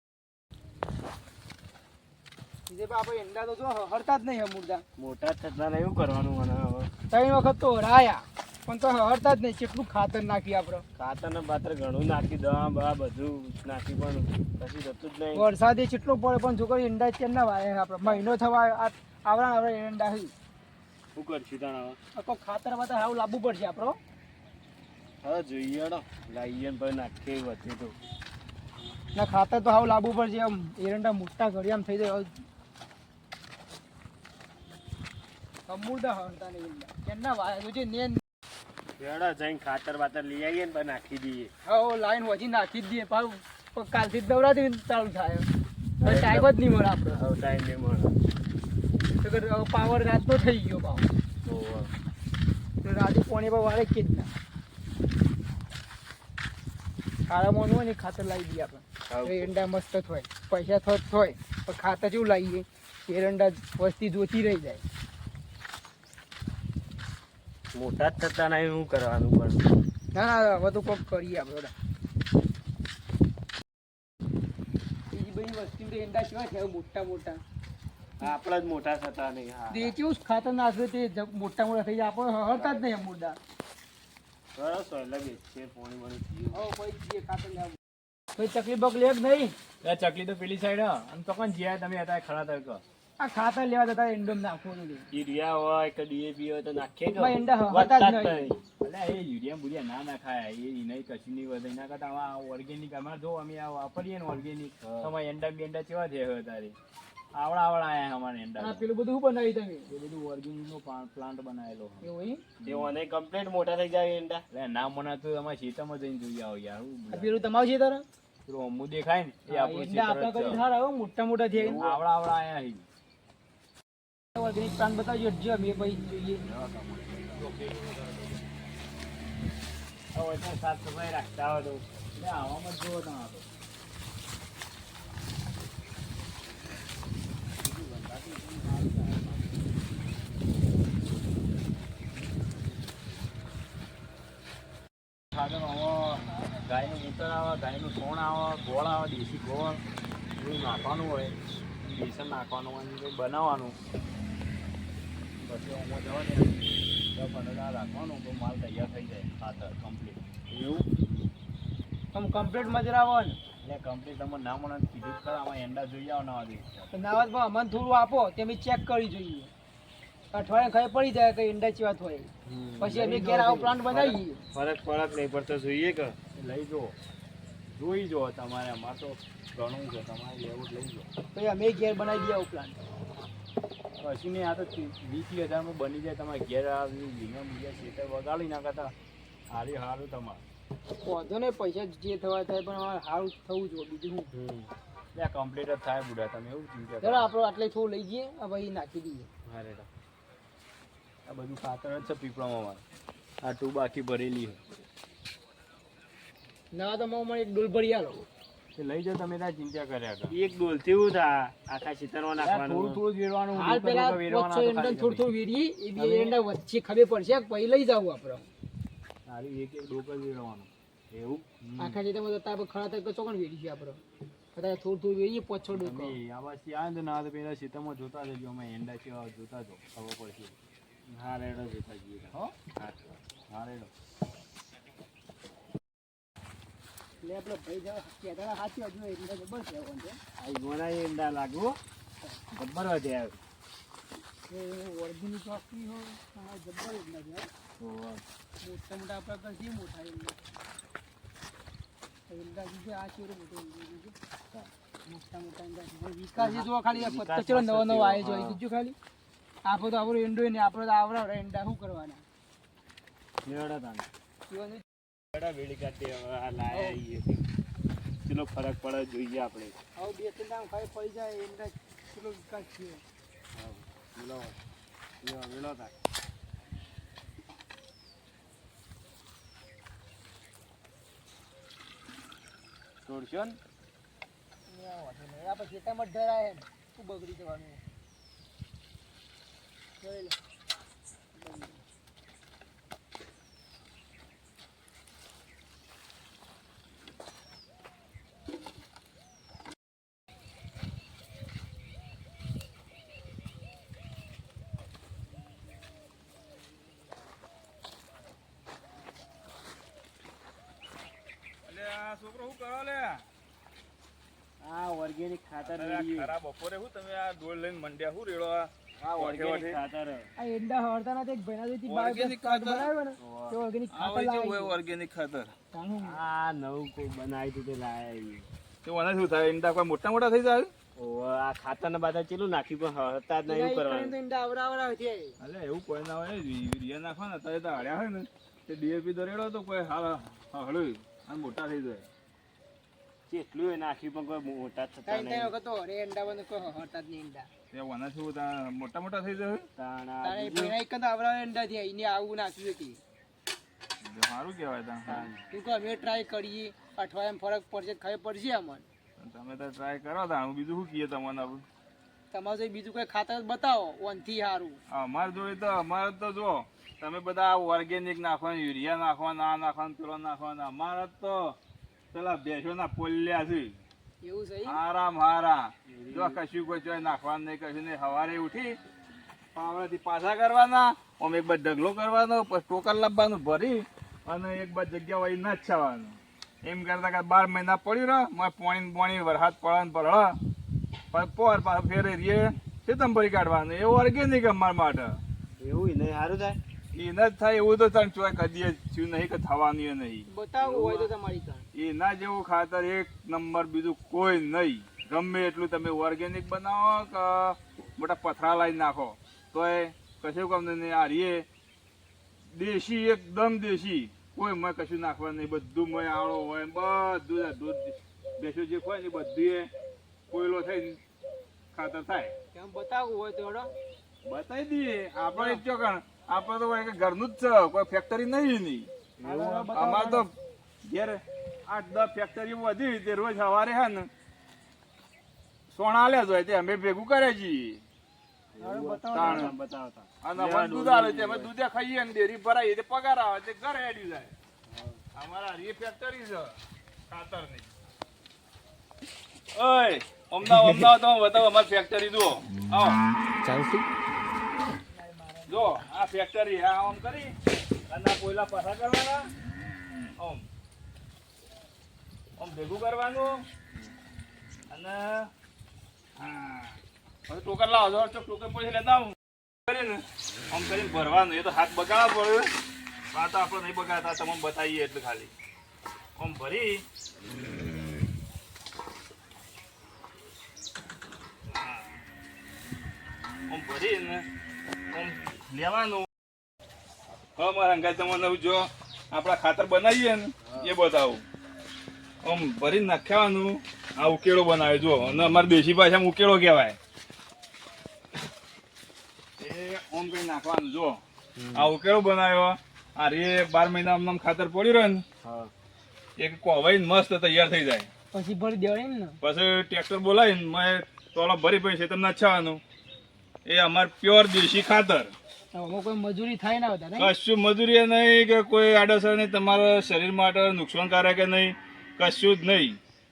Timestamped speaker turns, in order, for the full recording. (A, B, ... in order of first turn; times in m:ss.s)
0:02.7-0:04.8 A
0:05.0-0:06.9 B
0:07.1-0:10.8 A
0:11.0-0:15.4 B
0:15.3-0:20.3 A
0:21.1-0:22.0 B
0:22.1-0:24.0 A
0:25.2-0:28.0 B
0:29.1-0:32.4 A
0:35.7-0:38.2 A
0:39.0-0:41.5 B
0:41.6-0:45.5 A
0:46.0-0:46.5 B
0:46.0-0:47.2 A
0:47.1-0:48.2 B
0:49.2-0:51.1 A
0:51.4-0:51.9 B
0:52.8-0:54.3 A
0:57.3-1:04.8 A
0:59.1-0:59.5 B
1:07.7-1:09.6 B
1:10.1-1:11.7 A
1:15.1-1:17.4 A
1:18.2-1:20.0 B
1:19.7-1:23.4 A
1:22.5-1:22.8 B
1:24.5-1:26.7 B
1:26.5-1:27.8 A
1:28.4-1:29.5 A
1:29.8-1:32.8 C
1:33.2-1:35.1 A
1:35.1-1:38.6 B
1:37.2-1:38.5 A
1:38.8-1:46.8 C
1:44.8-1:45.1 B
1:47.3-1:48.8 C
1:48.6-1:49.9 A
1:49.9-1:52.1 C
1:52.0-1:52.4 A
1:52.6-1:53.0 C
1:52.6-1:54.4 B
1:54.5-1:57.4 C
1:57.1-1:58.0 A
1:58.4-2:00.6 C
1:59.5-2:01.9 A
2:01.5-2:02.8 C
2:04.4-2:06.4 A
2:06.4-2:08.3 C
2:10.1-2:11.8 B
2:12.1-2:13.5 C
2:17.6-2:19.7 C
2:25.3-2:29.8 C
2:30.4-2:33.8 C
2:35.4-2:40.2 C
2:40.5-2:40.9 B
2:42.1-2:43.4 A
2:43.6-2:46.9 C
2:46.9-2:49.5 A
2:50.3-2:54.4 A
2:52.4-2:53.9 C
2:53.9-2:56.2 B
2:56.3-2:57.0 C
2:57.7-3:01.1 C
3:01.3-3:02.8 A
3:04.0-3:08.9 C
3:09.5-3:10.4 C
3:11.0-3:14.3 A
3:14.3-3:14.7 B
3:15.1-3:17.3 C
3:17.0-3:19.3 A
3:19.5-3:19.8 B
3:21.2-3:22.8 C
3:23.4-3:24.6 C
3:26.7-3:28.2 A
3:28.8-3:30.4 C
3:30.3-3:33.0 B
3:32.4-3:35.2 C
3:33.5-3:38.5 A
3:35.9-3:36.4 C
3:39.2-3:42.0 C
3:41.8-3:44.0 A
3:44.5-3:46.2 A
3:45.7-3:50.5 C
3:51.1-3:53.2 B
3:53.5-3:53.9 C
3:57.2-4:00.2 A
4:00.4-4:01.8 B
4:02.5-4:03.4 B
4:04.5-4:07.5 A
4:07.8-4:08.2 C
4:08.6-4:10.4 A
4:12.3-4:14.1 A
4:15.0-4:19.0 A
4:16.4-4:18.6 B
4:19.6-4:22.2 A
4:23.4-4:24.1 B
4:24.5-4:24.8 A
4:25.3-4:27.5 B
4:26.7-4:27.0 A
4:28.2-4:29.8 B
4:30.0-4:33.0 A
4:33.5-4:34.6 B
4:35.2-4:35.9 B
4:43.0-4:43.6 B
4:44.7-4:47.8 A
4:50.0-4:50.4 A
4:51.4-4:51.8 A
5:11.6-5:13.2 D
5:14.6-5:16.3 B
5:15.6-5:19.8 D
5:19.0-5:20.3 B
5:20.4-5:24.8 A
5:21.9-5:22.9 D
5:23.2-5:23.6 B
5:23.9-5:25.5 D
5:25.7-5:26.2 A
5:26.0-5:28.5 B
5:28.8-5:30.7 D
5:31.0-5:34.1 B
5:33.4-5:35.4 A
5:35.4-5:42.0 D
5:43.3-5:45.5 B
5:45.0-5:47.5 A
5:47.7-5:49.7 D
5:49.8-5:50.8 B
5:50.2-5:53.0 A
5:54.0-5:55.2 D
5:55.1-5:55.4 B
5:55.3-5:58.8 A
5:59.2-6:01.6 D
6:02.3-6:04.8 A
6:04.9-6:11.6 D
6:12.1-6:13.8 D
6:14.2-6:14.8 A
6:14.6-6:18.8 D
6:15.9-6:16.4 B
6:19.5-6:30.4 D
6:31.1-6:35.2 D
6:35.6-6:36.6 B
6:36.9-6:41.0 D
6:40.3-6:41.6 A
6:41.7-6:51.4 D
6:52.5-6:59.7 D
7:00.3-7:01.0 D
7:01.7-7:02.3 D
7:02.5-7:03.7 A
7:04.2-7:08.9 D
7:05.3-7:05.6 A
7:09.2-7:09.7 B
7:09.2-7:10.2 A
7:09.7-7:10.3 D
7:10.8-7:14.1 D
7:15.7-7:17.8 D
7:18.5-7:21.5 B
7:18.6-7:19.5 A
7:19.1-7:19.5 D
7:20.2-7:24.3 D
7:24.7-7:25.0 B
7:25.1-7:26.6 D
7:27.1-7:27.7 D
7:29.5-7:33.0 D
7:33.4-7:33.8 B
7:35.0-7:35.4 C
7:35.5-7:37.3 D
7:37.9-7:39.3 D
7:40.2-7:40.4 D
7:42.4-7:43.4 D
7:44.7-7:45.3 D
7:46.2-7:52.5 D
7:53.1-7:55.3 D
7:56.2-7:56.8 D
8:01.5-8:02.0 D
8:03.5-8:04.2 D
8:04.9-8:06.1 D
8:07.4-8:11.2 D
8:10.4-8:10.7 B
8:12.2-8:16.8 D
8:19.4-8:21.0 D
8:21.4-8:21.7 B
8:21.5-8:25.0 D
8:25.2-8:25.5 B
8:26.2-8:27.9 D
8:28.1-8:29.2 A
8:29.2-8:32.6 D
8:33.4-8:35.1 D
8:35.5-8:37.1 A
8:37.0-8:42.8 D